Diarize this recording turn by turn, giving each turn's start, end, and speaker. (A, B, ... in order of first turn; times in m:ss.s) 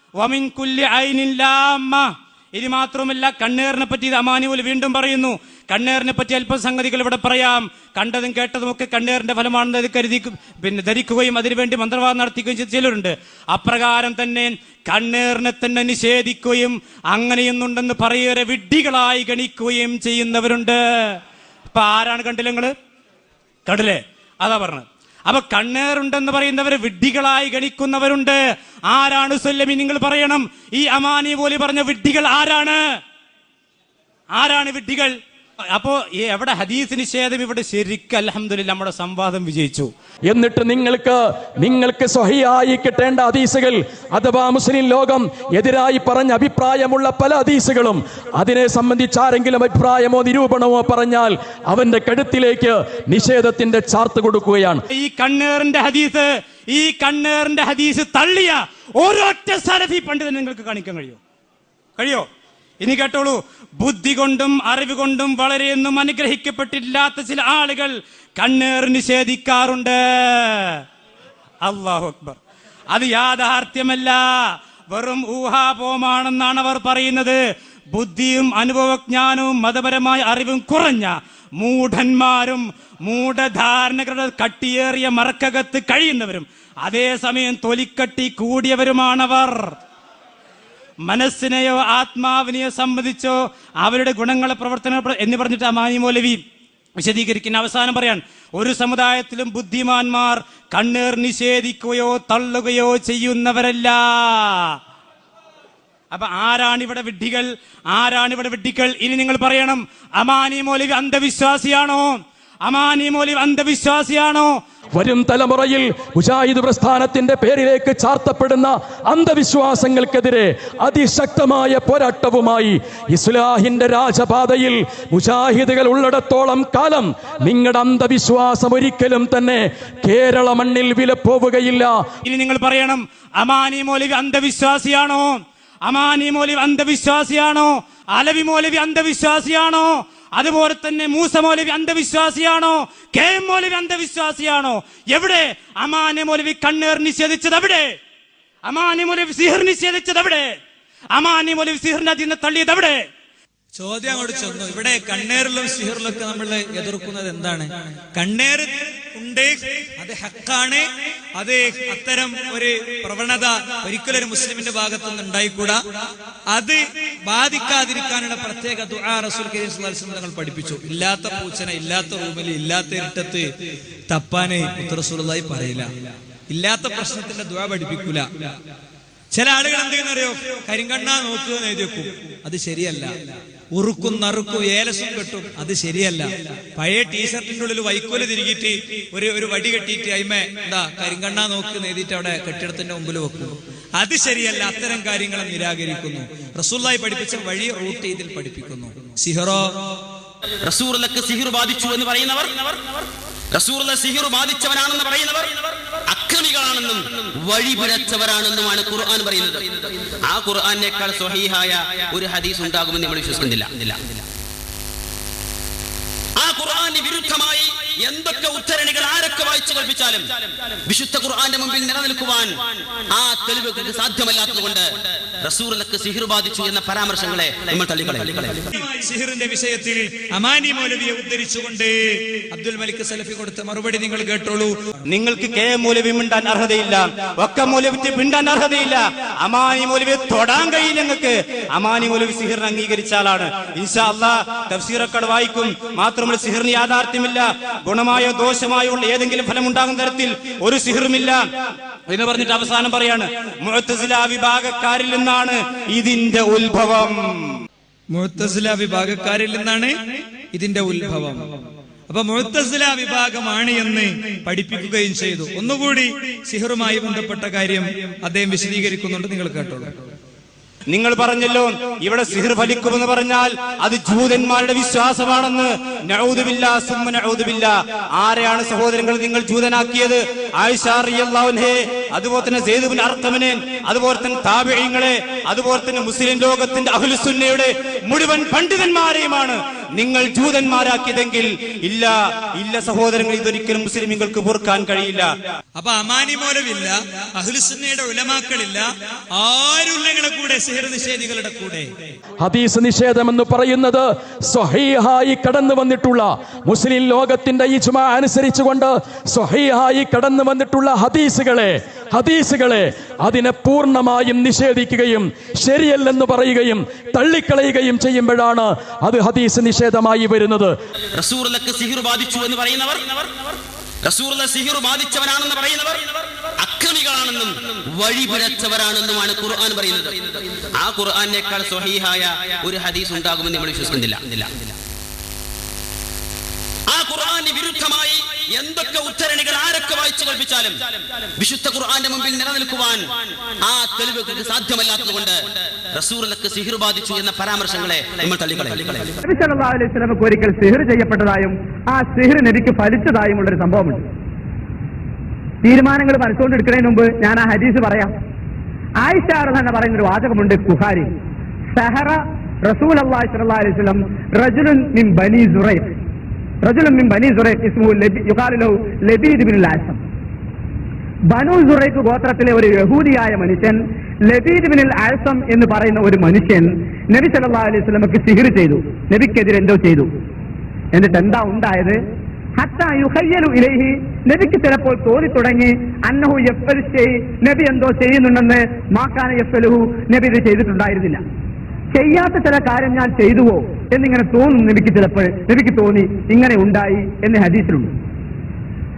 0:00.2-0:21.2 A
0:21.7-0:22.7 A
0:23.7-0:28.4 A
0:28.9-0:32.8 A
0:34.3-0:35.1 A
0:35.8-0:39.9 A
0:40.3-0:54.8 B
0:55.0-1:01.2 A
1:02.0-1:02.2 A
1:02.8-1:10.8 A
1:11.6-1:12.4 A
1:12.9-1:14.2 A
1:14.9-1:17.4 A
1:17.9-1:29.8 A
1:31.1-1:36.4 A
1:37.0-1:44.8 A
1:46.1-1:54.5 A
1:54.9-2:12.1 B
2:12.3-2:27.9 A
2:28.7-2:30.5 A
2:31.1-2:33.0 A
2:33.8-2:40.8 C
2:41.4-2:45.8 C
2:46.5-2:53.4 C
2:54.1-2:55.9 C
2:56.5-2:58.5 C
2:59.3-3:03.1 C
3:03.7-3:19.7 C
3:20.6-3:23.0 D
3:23.5-3:34.2 D
3:36.4-3:40.2 D
3:40.8-3:42.6 D
3:43.1-3:48.7 D
3:48.8-3:51.9 C
3:52.5-3:54.8 C
3:55.1-4:11.4 A
4:12.1-4:17.6 A
4:18.1-4:19.9 C
4:20.5-4:21.5 C
4:22.1-4:29.9 C
4:30.9-4:55.3 A
4:55.8-5:01.9 C
5:02.4-5:20.7 B
5:21.1-5:23.4 D
5:24.0-5:34.7 D
5:36.9-5:40.8 D
5:41.4-5:43.0 D
5:43.6-5:49.2 D
5:49.2-5:54.0 E
5:55.6-5:58.1 E
5:59.0-6:01.1 E
6:01.7-6:05.9 E
6:06.6-6:10.0 E
6:11.3-6:20.1 E
6:20.9-6:22.0 E
6:22.6-6:31.2 E
6:31.9-6:37.9 E